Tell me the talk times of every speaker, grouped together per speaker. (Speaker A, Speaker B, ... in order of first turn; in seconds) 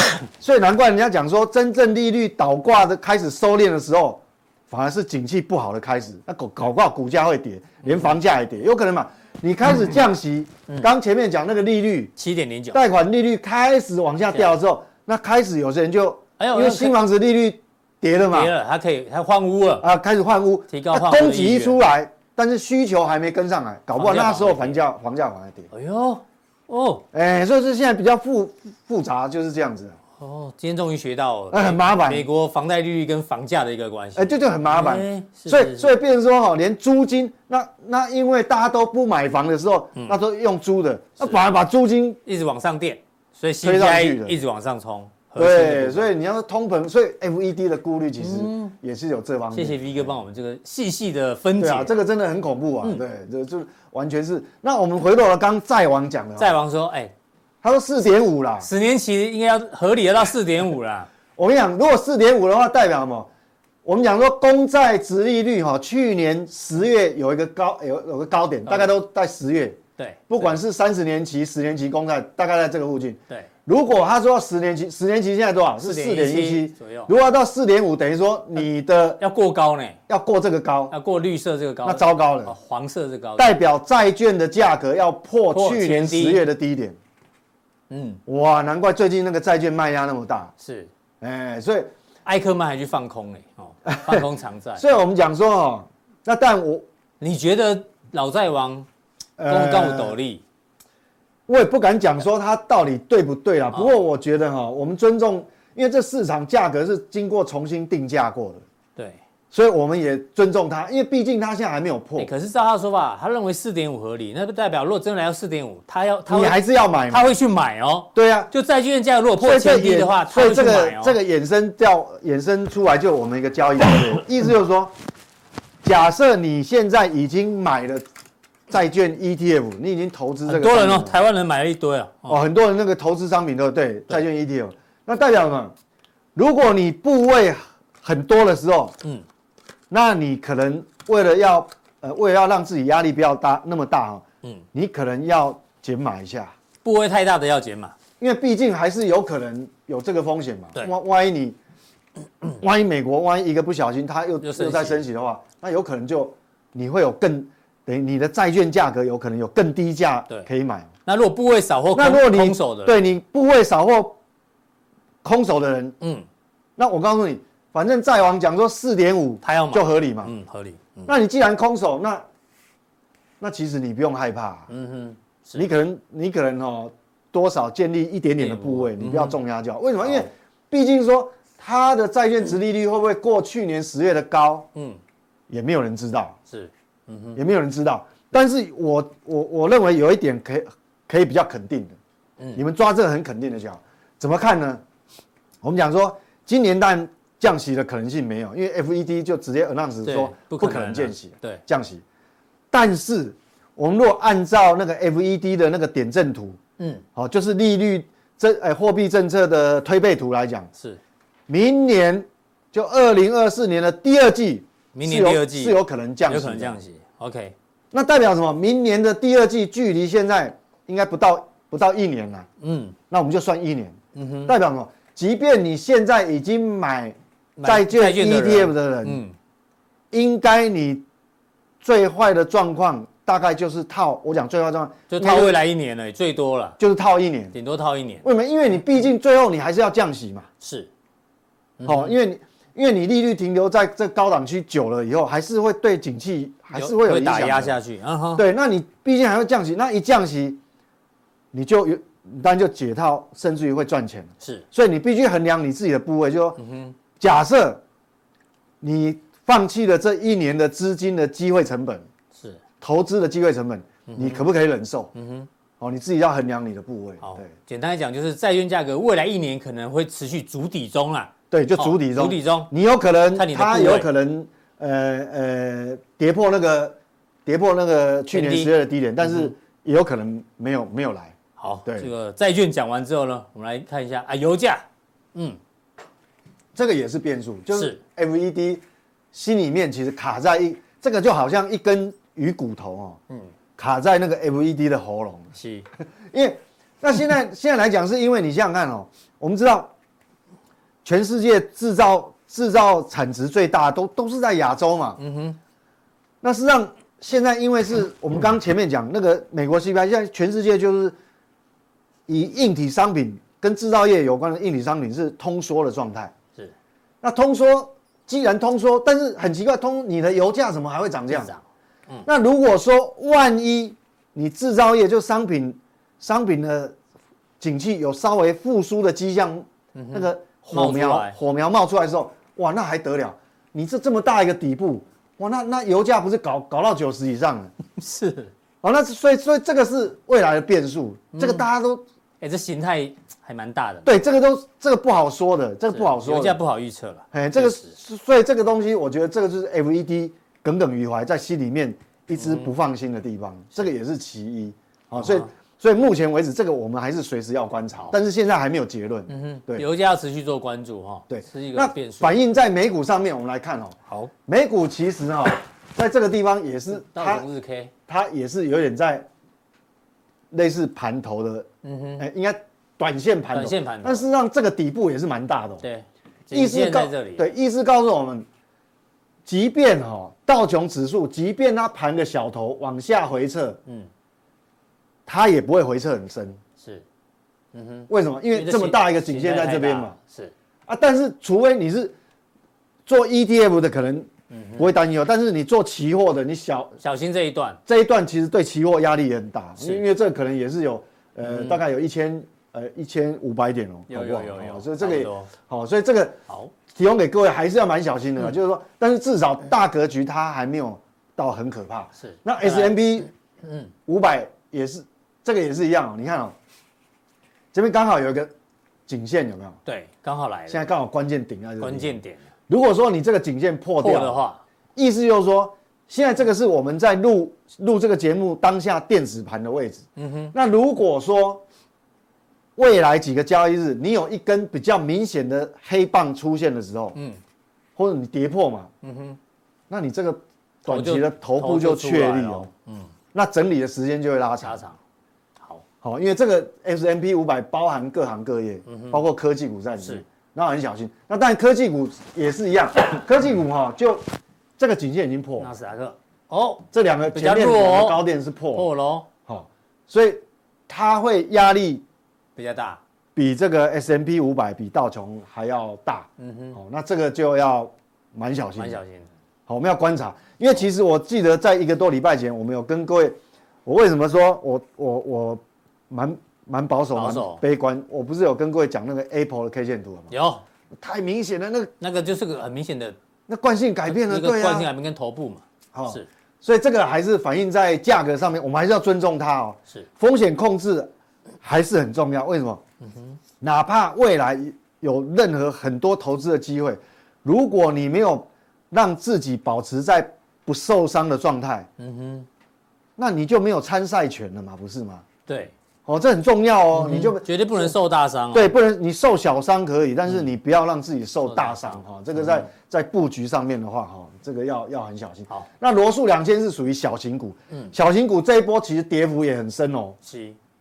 Speaker A: 0.2-12.1, 12.7-18.5, 19.8-25.7, 27.1-30.0, 31.5-32.2, 34.1-42.2, 43.6-44.4, 45.4-50.2, 51.6-56.5, 57.6-58.7, 61.4-63.3, 63.8-79.2, 80.1-80.9, 81.8-82.5, 83.4-87.0, 88.3-90.5, 91.2-91.9, 93.8-94.2, 94.8-96.8, 99.4-100.2, 101.5-108.6, 109.5-112.3, 116.3-117.3, 118.1-118.5, 119.4-124.9, 125.8-128.1, 128.7-131.2, 132.3-135.7, 136.3-139.0, 139.9-146.5, 148.2-151.6, 152.6-160.9, 161.9-164.2, 165.2-165.9, 166.8-170.3, 171.1-172.2, 173.4-174.7, 175.6-184.7, 185.5-186.4, 187.3-192.0, 192.5-194.8, 195.6-202.0, 202.7-206.6, 207.2-210.7, 211.5-216.8, 217.9-222.5, 223.1-229.2, 230.1-231.0, 231.8-235.6, 236.8-237.5, 238.2-240.5, 241.8-247.8, 248.3-250.6, 251.5-256.6, 257.1-257.8, 258.8-262.1, 262.8-265.1, 265.8-267.5, 271.5-282.1, 286.7-293.2, 293.8-295.5, 296.3-299.9, 301.0-305.2, 306.4-311.1, 312.3-316.3, 317.2-321.5, 322.2-326.9, 327.6-337.7, 338.8-342.0, 344.0-346.6, 347.3-359.8, 361.3-367.4, 368.1-369.3, 370.5-371.7, 372.2-375.8, 376.5-378.4, 379.4-383.8, 385.2-386.6, 388.1-390.1, 390.9-392.1, 393.1-397.0, 397.9-413.3, 414.1-416.5, 417.7-418.5, 419.1-419.8, 420.7-422.2, 422.7-424.4, 424.9-431.6, 432.8-437.1, 437.9-438.9, 439.9-442.7, 443.3-444.8, 446.0-454.2, 454.8-455.7, 456.9-458.9, 459.5-462.0, 463.4-469.0, 469.7-480.3, 480.9-481.9, 483.5-484.9, 485.9-491.1, 491.6-492.8, 493.6-501.9, 503.2-505.2, 506.1-507.9, 508.5-520.2
Speaker B: 12.2-12.8, 16.4-17.0, 18.3-19.9, 20.7-21.8, 23.9-24.8, 25.7-27.0, 30.2-35.9, 42.2-46.1, 48.2-48.7, 49.5-51.9, 56.4-57.1, 58.6-61.1, 68.7-68.9, 70.0-70.5, 75.8-77.1, 79.2-80.0, 80.9-83.6, 85.5-86.4, 87.9-88.2, 90.6-90.9, 92.2-94.8, 97.2-98.9, 99.5-100.4, 109.0-109.2, 112.2-116.6, 117.1-121.2, 130.4-132.4, 146.8-147.9, 154.4-155.0, 161.1-163.0, 166.0-166.2, 169.4-171.1, 174.7-175.7, 178.4-179.4, 184.7-185.0, 186.5-187.4, 200.0-201.6, 206.8-207.0, 214.9-217.5, 222.6-222.9, 224.1-224.5, 227.6-229.3, 235.1-236.8, 237.5-238.2, 240.6-240.9, 241.8-242.2, 246.7-248.4, 256.6-256.9, 262.3-262.6, 264.1-264.4, 265.1-265.5, 267.2-272.7, 273.3-274.1, 278.3-279.5, 281.6-285.6, 287.7-288.0, 295.5-295.9, 305.2-305.6, 321.3-322.2, 329.9-331.4, 337.9-338.5, 341.3-341.6, 342.4-344.1, 345.9-347.9, 352.4-352.7, 355.2-355.5, 359.3-362.4, 366.9-367.9, 371.8-372.2, 373.5-374.2, 375.8-377.5, 386.8-387.0, 387.7-390.5, 394.5-394.9, 397.0-397.8, 401.4-401.8, 404.1-405.5, 412.2-413.0, 413.6-413.9, 419.9-420.9, 421.8-422.4, 424.0-424.6, 430.2-430.5, 437.1-437.4, 439.0-439.4, 440.9-443.1, 444.6-445.0, 448.9-449.2, 455.6-458.2, 458.7-459.3, 462.6-463.0, 466.4-466.8, 468.8-469.3, 477.1-477.6, 480.3-480.6, 482.0-483.2, 484.1-486.2, 493.0-493.4, 502.0-502.5, 505.4-505.7, 506.9-508.7, 511.5-512.0, 520.2-520.6